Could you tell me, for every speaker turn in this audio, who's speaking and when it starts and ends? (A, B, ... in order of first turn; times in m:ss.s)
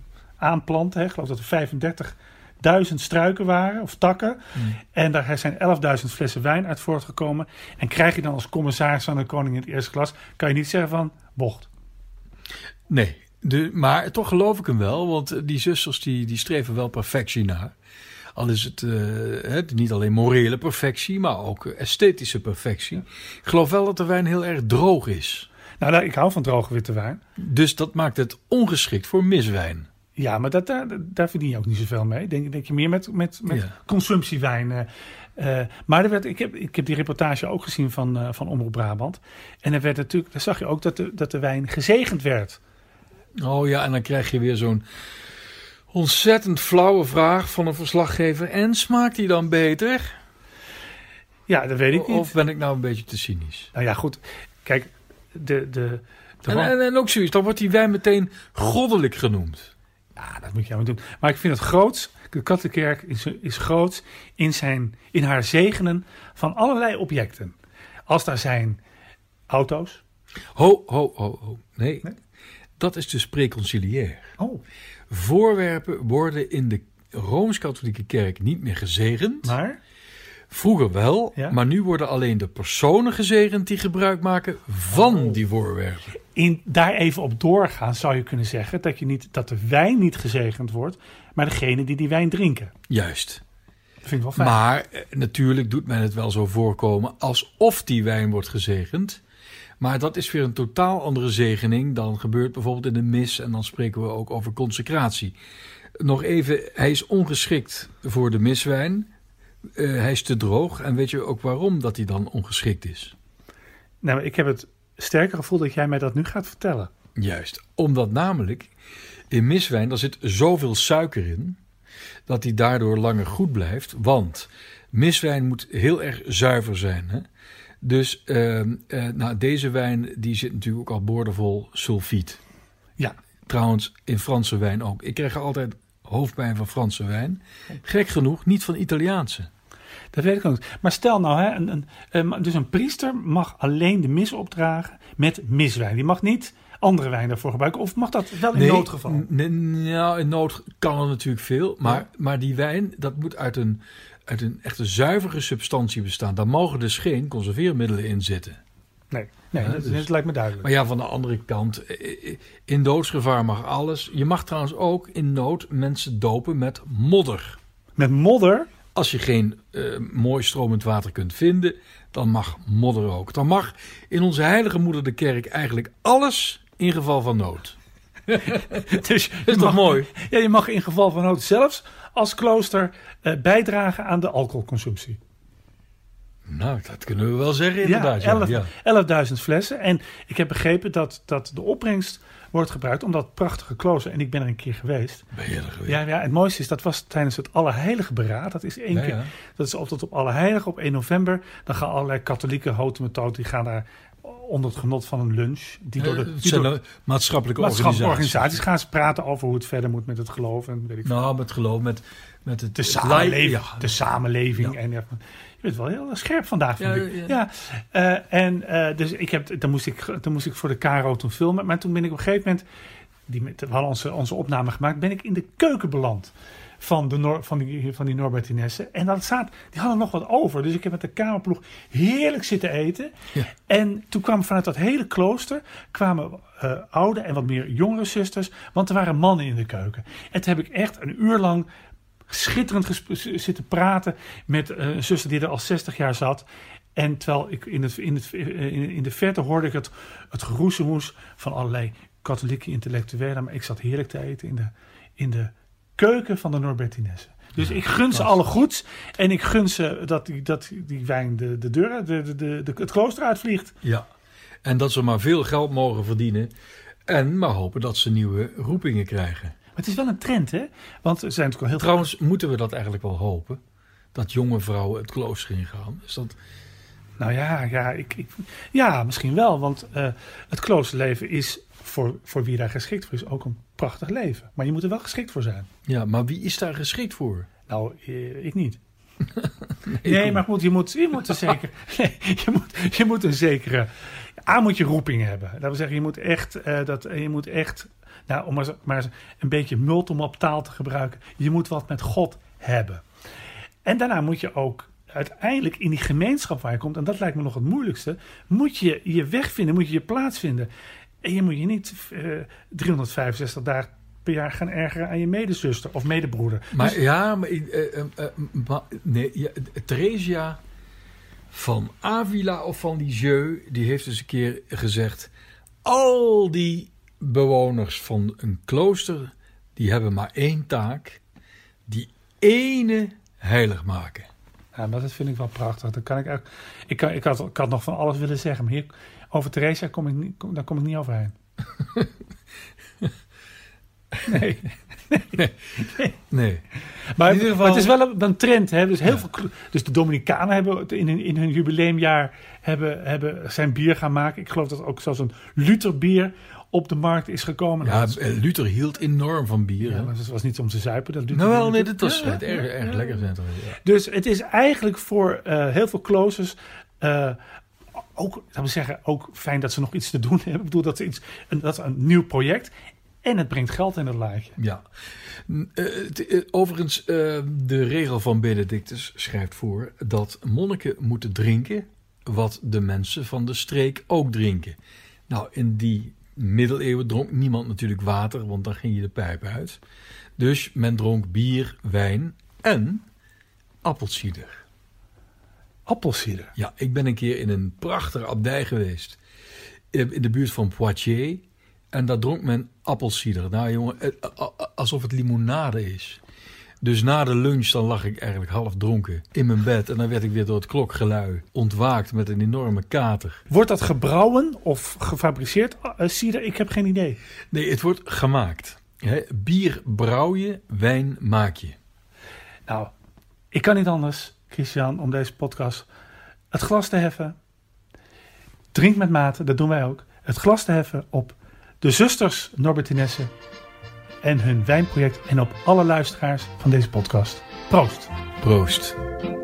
0:00.4-0:11.7 A
0:12.9-0:17.7 B
0:18.3-0:25.5 B
0:25.8-0:27.2 A
0:27.4-0:29.9 B
0:30.2-0:42.6 A
0:43.4-0:44.8 B
0:45.9-0:50.2 B
0:51.5-0:52.3 A
0:51.9-0:53.7 B
0:53.7-0:56.7 A
0:56.5-0:59.7 B
1:00.2-1:07.5 A
1:08.1-1:08.8 A
1:09.5-1:10.0 A
1:10.5-1:12.1 B
1:12.8-1:14.3 B
1:15.1-1:19.5 B
1:19.4-1:19.8 A
1:20.5-1:26.1 B
1:24.9-1:25.4 A
1:26.3-1:32.7 A
1:32.9-1:33.4 B
1:34.0-1:34.6 A
1:34.4-1:39.2 B
1:39.8-1:45.3 B
1:46.0-1:49.1 B
1:49.7-1:53.1 B
1:54.0-1:56.9 A
1:57.2-1:58.7 B
1:59.3-2:01.6 B
2:02.3-2:07.2 B
2:07.8-2:12.4 B
2:13.4-2:19.5 B
2:20.1-2:29.2 A
2:28.5-2:38.6 B
2:39.1-2:40.7 A
2:39.6-2:40.1 B
2:40.6-2:47.6 B
2:48.0-2:48.7 A
2:48.9-2:57.8 B
2:58.3-3:00.1 B
2:58.5-3:05.2 A
3:06.4-3:08.7 B
3:07.8-3:15.3 A
3:15.3-3:16.0 B
3:15.8-3:26.7 A
3:18.9-3:19.3 B
3:26.0-3:28.6 B
3:27.6-3:31.2 A
3:31.0-3:33.9 B
3:32.7-3:42.6 A
3:36.8-3:37.4 B
3:43.3-3:53.1 A
3:53.7-4:01.7 A
4:02.3-4:23.7 A
4:17.6-4:18.3 B
4:24.6-4:26.5 B
4:27.1-4:29.5 B
4:29.8-4:32.0 A
4:31.7-4:33.6 B
4:34.1-4:36.4 B
4:37.2-4:45.7 A
4:45.8-4:47.5 B
4:47.7-4:48.8 A
4:49.4-4:50.4 B
4:50.0-4:53.9 A
4:54.4-5:03.0 A
5:03.8-5:10.7 A
5:11.2-5:17.0 A
5:16.7-5:20.6 B
5:21.5-5:25.3 B
5:25.8-5:31.2 B
5:31.9-5:34.3 B
5:34.7-5:41.3 A
5:44.2-5:46.1 A
5:46.3-5:46.6 B
5:47.1-5:58.2 A
5:47.2-5:47.9 B
5:57.8-6:00.1 B
5:59.8-6:02.7 A
6:01.3-6:03.8 B
6:03.8-6:07.4 A
6:08.1-6:12.7 A
6:13.2-6:14.6 A
6:14.6-6:14.8 B
6:15.5-6:24.8 B
6:25.3-6:29.8 B
6:30.4-6:33.0 B
6:33.8-6:34.6 B
6:35.9-6:36.5 A
6:36.6-6:39.2 B
6:39.9-6:46.2 B
6:46.8-6:53.4 B
6:53.5-6:57.2 A
6:57.5-7:01.8 B
7:02.7-7:02.9 A
7:03.5-7:05.8 A
7:06.5-7:07.4 A
7:08.7-7:13.3 A
7:14.2-7:18.1 A
7:18.4-7:19.0 B